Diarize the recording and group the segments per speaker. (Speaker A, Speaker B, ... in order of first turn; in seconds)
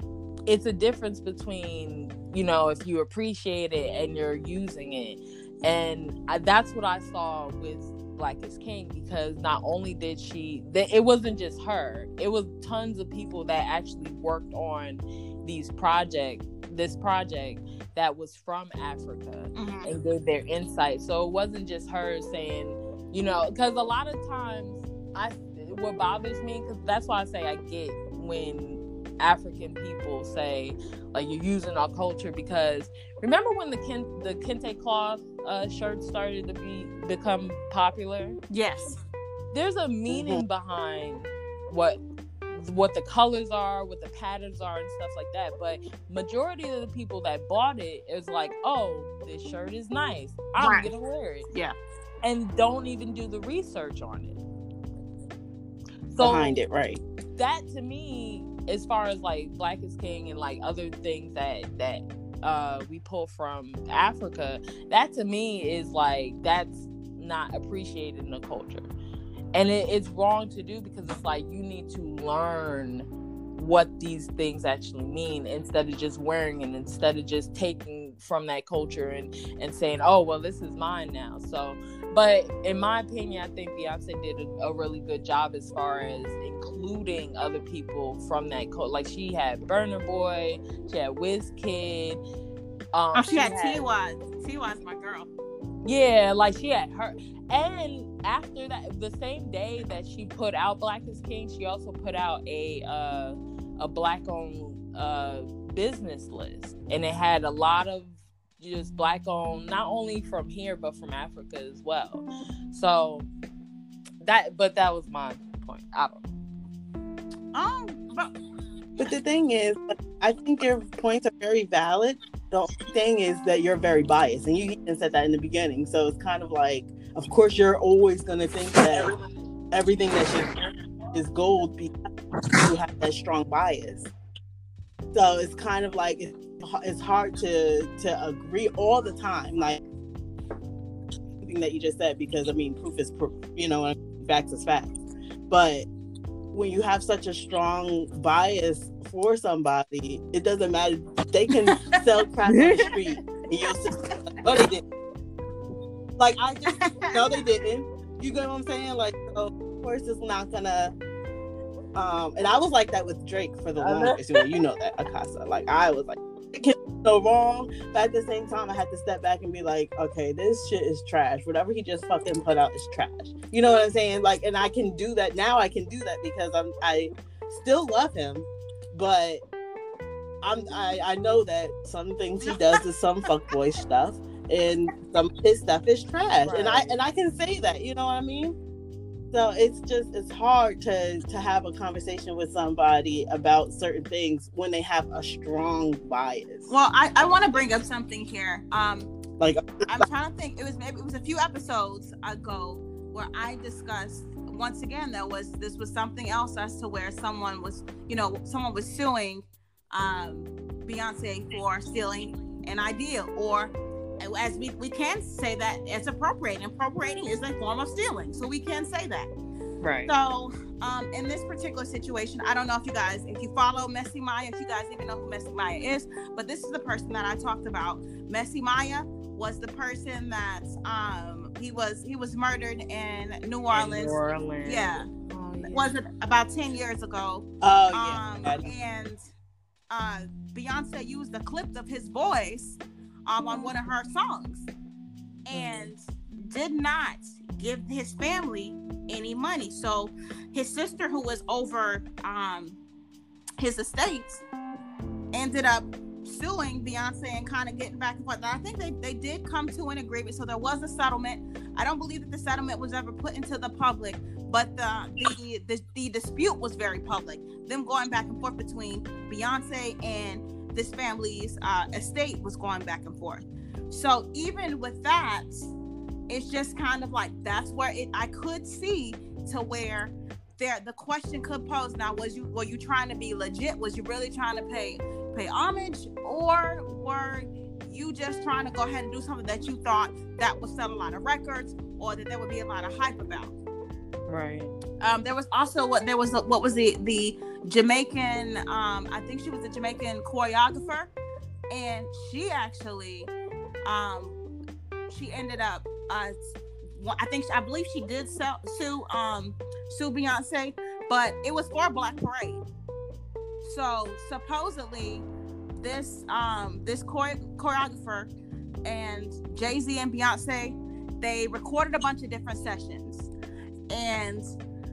Speaker A: 0.5-38.4, 39.5-42.0, 42.5-51.4, 52.2-54.4, 56.1-56.6, 57.4-68.9, 69.5-92.2, 92.9-93.8, 95.8-113.3, 114.2-116.2, 152.5-152.9, 163.8-164.2, 186.4-186.9, 219.8-220.1, 233.7-235.9, 245.5-245.9, 294.3-294.7
Speaker B: 19.5-19.9, 38.5-39.0, 50.6-50.9, 93.1-95.3, 117.5-118.3, 151.5-152.0, 156.7-157.2, 182.4-182.8, 196.7-199.1, 199.9-219.3, 220.1-235.1, 235.6-239.2, 239.9-244.7, 245.5-252.8, 253.6-254.4, 255.3-275.7, 276.3-293.5, 295.0-301.1, 301.7-303.3, 303.8-304.4, 305.1-306.3, 306.9-312.6, 313.6-318.3, 318.8-323.3, 323.9-324.4
Speaker C: 40.1-40.4, 56.2-57.0, 119.0-129.1, 129.7-130.5, 131.1-131.9, 132.6-134.1, 135.1-139.8, 141.4-144.9, 145.5-145.9, 146.5-154.8, 156.2-160.9, 161.9-179.4, 180.4-188.6, 189.3-197.7, 199.4-200.1, 237.6-238.7